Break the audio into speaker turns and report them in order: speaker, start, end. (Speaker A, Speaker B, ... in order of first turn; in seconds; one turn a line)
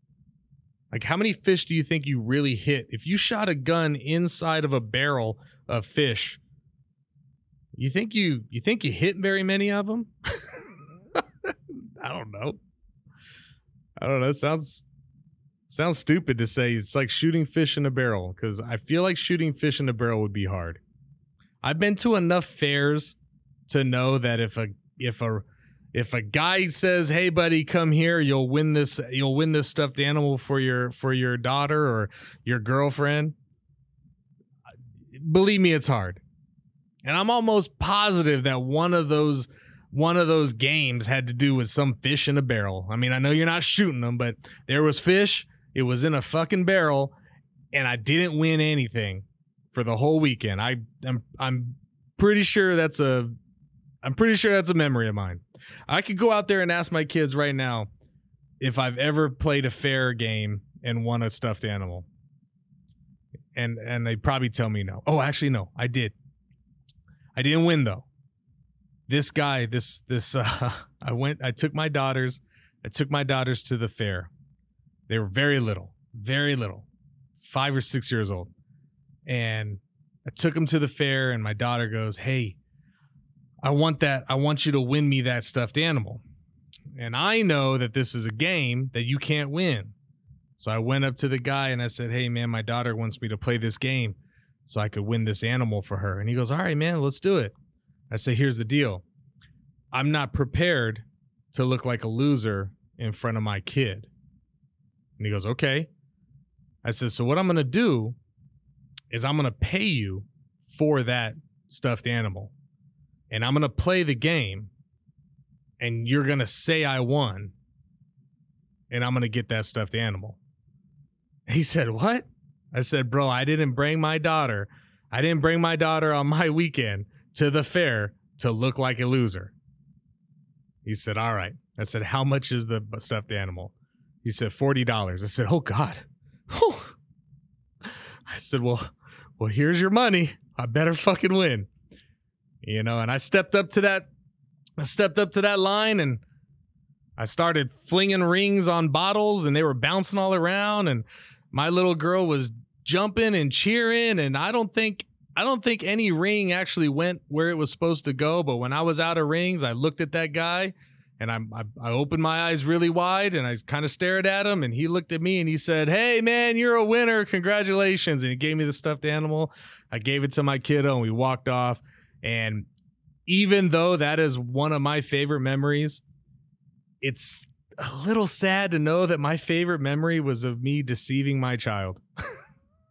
Speaker A: 0.9-6.4
Speaker A: 7.7-10.6
Speaker A: 11.5-12.6
Speaker A: 14.0-14.8
Speaker A: 15.7-20.8
Speaker A: 21.6-23.2
Speaker A: 23.7-33.3
Speaker A: 35.1-36.2
Speaker A: 37.0-47.1
Speaker A: 47.7-53.3
Speaker A: 54.0-57.9
Speaker A: 58.6-62.1
Speaker A: 63.5-66.1
Speaker A: 67.3-68.1
Speaker A: 69.1-74.3
Speaker A: 75.1-76.9
Speaker A: 77.4-78.5
Speaker A: 79.2-82.6
Speaker A: 83.6-86.2
Speaker A: 87.0-89.9
Speaker A: 90.6-97.5
Speaker A: 98.1-99.0
Speaker A: 99.9-104.1
Speaker A: 105.2-105.9
Speaker A: 106.8-108.2
Speaker A: 109.1-112.5
Speaker A: 113.3-114.7
Speaker A: 115.8-117.5
Speaker A: 118.9-120.4
Speaker A: 121.5-129.5
Speaker A: 130.8-136.9
Speaker A: 138.3-141.7
Speaker A: 142.6-144.1
Speaker A: 144.8-146.2
Speaker A: 147.2-172.7
Speaker A: 173.3-176.0
Speaker A: 177.0-182.0